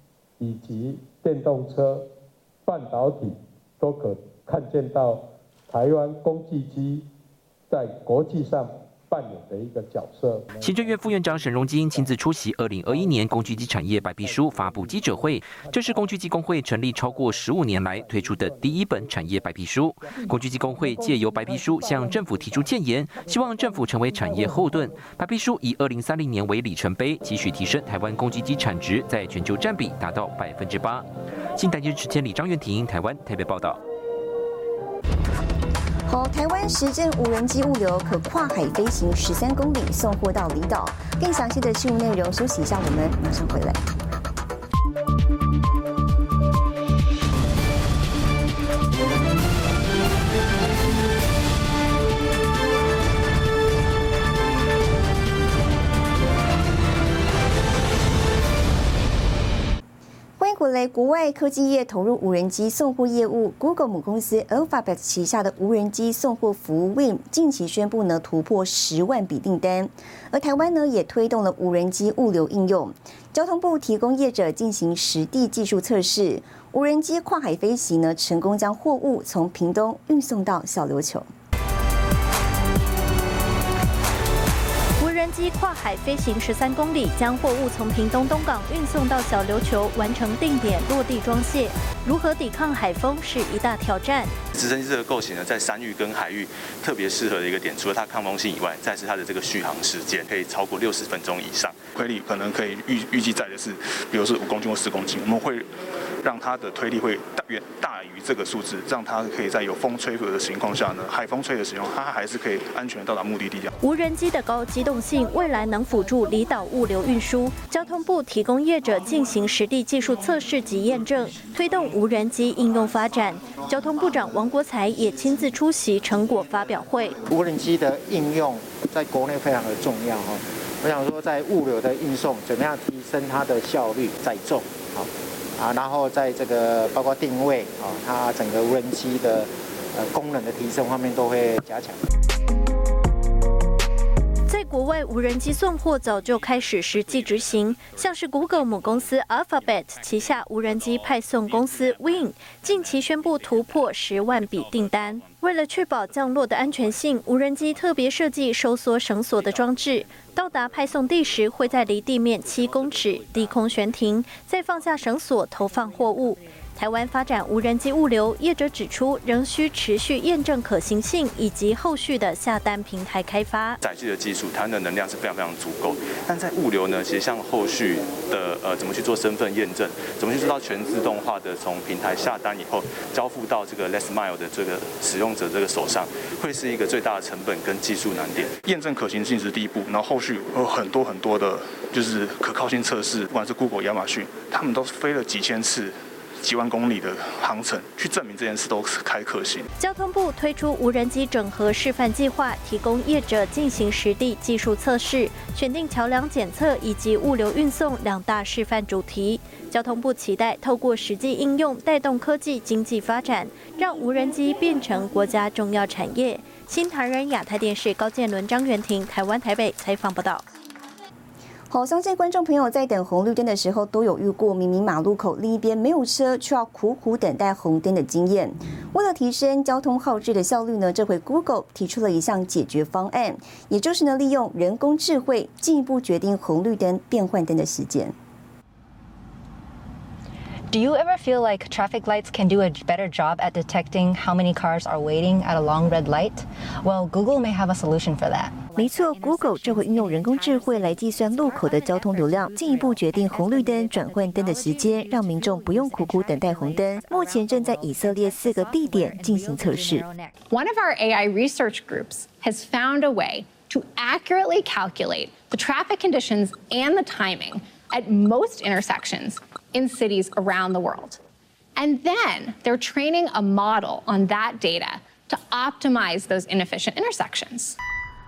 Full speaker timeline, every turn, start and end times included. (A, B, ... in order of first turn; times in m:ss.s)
0:00.4-0:02.1 A
0:02.6-0:07.1 A
0:07.7-0:10.7 A
0:10.6-0:33.8 B
0:36.1-0:43.8 C
1:00.4-1:21.2 C
1:25.0-1:34.3 D
1:34.5-1:41.9 E
1:41.9-1:45.7 F
1:46.2-1:53.7 F
1:53.8-2:07.2 D
2:07.2-2:22.0 G
2:24.5-2:53.8 D
2:53.8-3:08.6 E
3:08.6-3:19.7 F
3:19.8-3:40.4 D
3:41.7-3:58.1 C
4:00.7-4:20.3 H
4:08.8-4:20.0 C
4:20.5-4:31.2 I
4:31.8-4:37.8 I